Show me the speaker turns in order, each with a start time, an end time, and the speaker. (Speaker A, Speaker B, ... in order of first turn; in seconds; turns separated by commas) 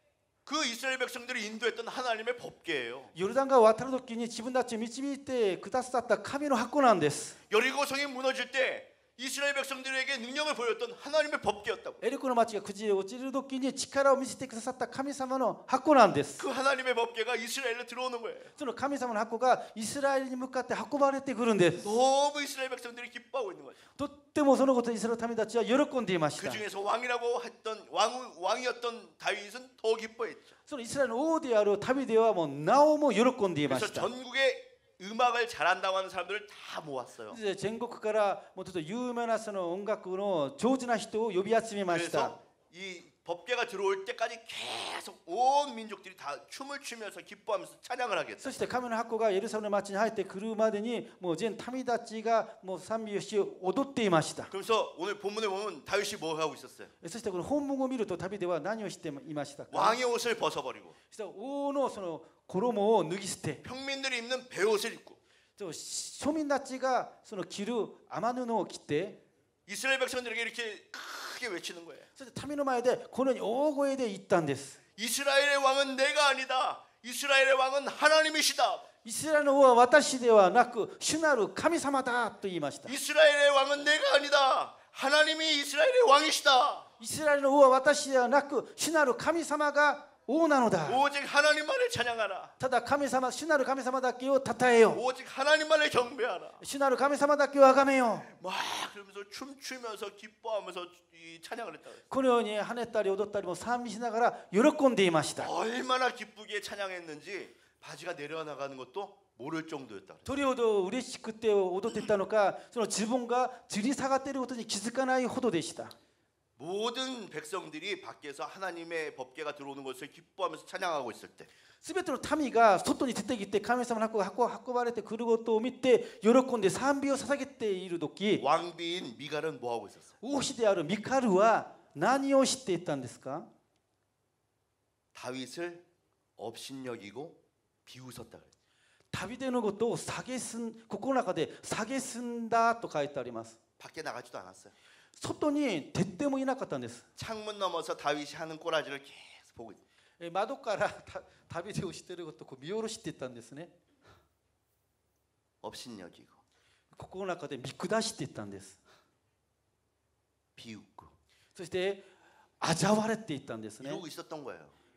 Speaker A: 0.5-3.1, Speaker B: 3.1-7.4, Speaker A: 7.5-12.0, Speaker B: 12.0-16.4, Speaker A: 16.4-18.5, Speaker B: 18.6-21.9, Speaker A: 21.8-23.8, Speaker B: 24.0-26.6, Speaker A: 26.4-30.6, Speaker B: 30.7-34.1, Speaker A: 33.6-37.4, Speaker B: 37.3-42.3, Speaker A: 41.9-48.6, Speaker B: 48.4-54.5, Speaker A: 54.5-56.9, Speaker B: 57.0-60.0, Speaker A: 59.7-61.0, Speaker B: 61.1-63.6, Speaker A: 63.6-65.2, Speaker B: 65.6-69.2, Speaker A: 69.7-72.1, Speaker B: 72.2-74.8, Speaker A: 75.0-78.8, Speaker B: 79.0-82.9, Speaker A: 82.8-86.9, Speaker B: 87.0-91.0, Speaker A: 90.8-92.5, Speaker B: 92.6-95.0, Speaker A: 94.9-96.6, Speaker B: 96.6-98.3, Speaker A: 98.3-102.0, Speaker B: 102.1-105.5, Speaker A: 105.4-110.3, Speaker B: 110.2-115.9, Speaker A: 116.6-121.5, Speaker B: 121.8-128.4, Speaker A: 128.4-130.2, Speaker B: 130.2-133.5, Speaker A: 135.1-135.8, Speaker A: 136.4-138.5, Speaker B: 139.1-143.6, Speaker A: 143.8-144.7, Speaker B: 145.2-147.1, Speaker A: 147.2-149.8, Speaker B: 150.2-153.7, Speaker A: 155.6-156.4, Speaker B: 156.9-158.8, Speaker A: 160.6-161.1, Speaker B: 161.5-162.0, Speaker B: 162.6-164.0, Speaker A: 163.8-164.8